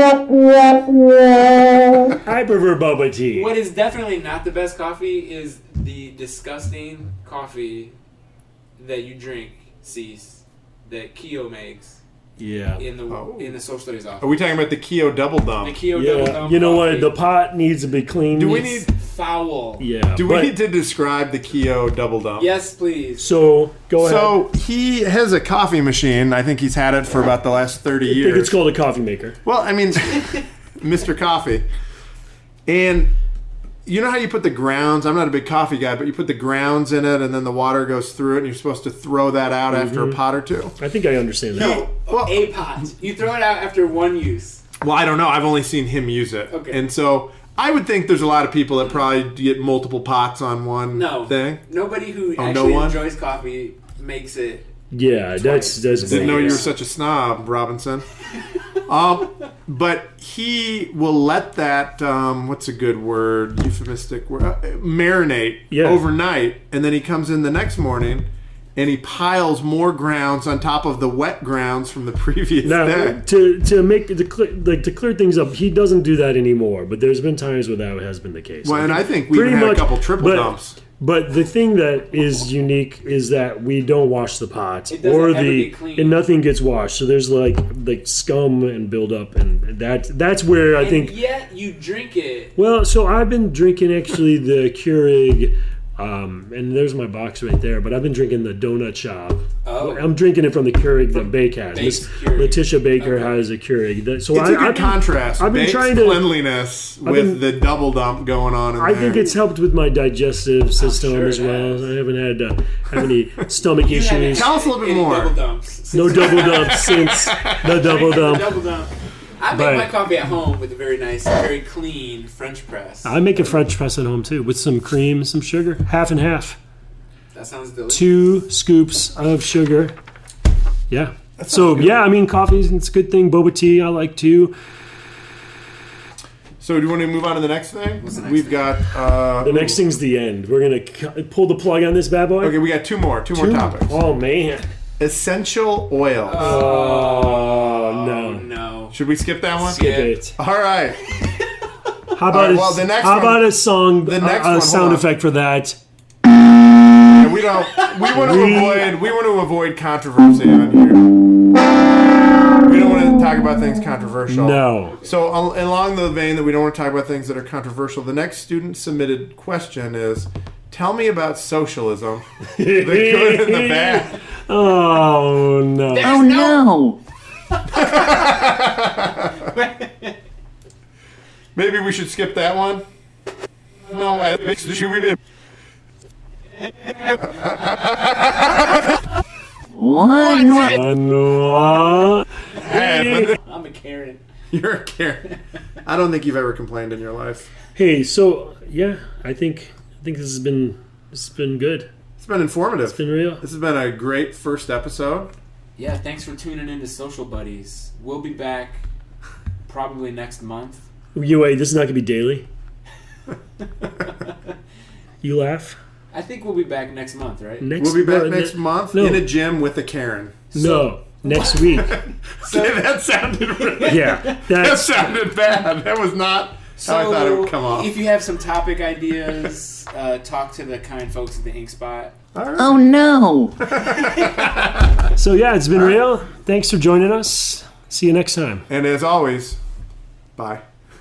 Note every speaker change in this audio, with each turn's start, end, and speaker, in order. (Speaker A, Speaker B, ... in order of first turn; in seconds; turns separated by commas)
Speaker A: 2.2-3.5, Speaker B: 3.3-7.9, Speaker B: 8.8-12.0, Speaker A: 12.4-12.8, Speaker B: 12.8-14.4, Speaker C: 13.1-13.6, Speaker C: 14.2-15.8, Speaker B: 15.6-17.1, Speaker A: 15.9-18.8, Speaker C: 18.3-18.9, Speaker B: 18.6-19.9, Speaker A: 19.8-20.6, Speaker C: 20.1-22.5, Speaker B: 22.4-23.3, Speaker A: 23.2-24.4, Speaker C: 24.0-28.5, Speaker A: 28.1-29.4, Speaker C: 29.4-31.7, Speaker B: 30.2-30.4, Speaker C: 32.7-33.1, Speaker C: 33.9-40.8, Speaker A: 39.7-40.2, Speaker A: 40.8-41.8, Speaker B: 41.5-44.6, Speaker C: 41.5-42.4, Speaker C: 44.8-51.6, Speaker B: 46.5-46.8, Speaker B: 50.9-54.7, Speaker C: 52.4-53.0, Speaker A: 54.9-56.7, Speaker B: 55.4-56.8, Speaker C: 56.1-58.1, Speaker C: 58.9-73.2, Speaker A: 65.7-66.0, Speaker A: 72.6-91.2, Speaker C: 78.6-80.8, Speaker B: 84.9-86.2, Speaker B: 90.8-92.5, Speaker A: 92.6-106.3, Speaker B: 99.7-100.1, Speaker B: 101.3-103.4, Speaker C: 104.3-109.3, Speaker A: 107.0-107.4, Speaker A: 108.8-114.5, Speaker B: 110.8-111.9, Speaker B: 113.8-123.1, Speaker C: 114.3-115.4, Speaker A: 115.9-118.6, Speaker C: 116.2-117.7, Speaker A: 119.5-119.9, Speaker A: 123.0-126.6, Speaker B: 127.3-128.3, Speaker A: 127.9-129.9, Speaker A: 130.9-134.5, Speaker C: 131.4-132.1, Speaker C: 136.6-139.8, Speaker B: 138.0-138.8, Speaker A: 139.4-142.6, Speaker C: 142.4-144.0, Speaker A: 143.3-144.7, Speaker C: 145.0-146.7, Speaker B: 146.3-149.0, Speaker A: 146.4-148.5, Speaker C: 148.9-149.8, Speaker B: 149.6-150.2, Speaker A: 149.6-150.3, Speaker C: 150.4-151.0, Speaker A: 152.1-155.8, Speaker C: 152.3-153.5, Speaker C: 154.0-155.1, Speaker C: 157.1-161.1, Speaker A: 158.1-159.0, Speaker C: 162.6-174.2, Speaker A: 164.3-165.0, Speaker A: 172.4-176.2, Speaker B: 175.9-176.7, Speaker D: 176.0-177.0, Speaker B: 177.5-178.5, Speaker C: 177.7-179.5, Speaker B: 179.4-180.2, Speaker C: 181.6-182.8, Speaker C: 183.9-185.2, Speaker B: 186.7-187.3, Speaker C: 187.3-188.7, Speaker D: 189.8-190.8, Speaker A: 190.6-192.9, Speaker B: 192.6-194.2, Speaker C: 192.6-193.4, Speaker C: 194.5-197.5, Speaker A: 197.8-201.9, Speaker C: 202.2-205.3, Speaker A: 202.9-203.4, Speaker B: 205.8-208.8, Speaker B: 209.7-210.8, Speaker A: 211.2-212.5, Speaker A: 215.2-215.8, Speaker B: 216.1-217.7, Speaker A: 217.6-219.3, Speaker C: 217.8-220.5, Speaker B: 220.5-222.8, Speaker A: 220.5-222.0, Speaker C: 221.7-227.9, Speaker B: 223.6-224.4, Speaker A: 223.8-225.0, Speaker B: 226.8-232.2, Speaker C: 232.3-232.8, Speaker D: 232.6-233.7, Speaker C: 233.6-235.1, Speaker B: 233.9-234.5, Speaker A: 235.2-238.7, Speaker C: 238.7-239.6, Speaker C: 240.4-240.6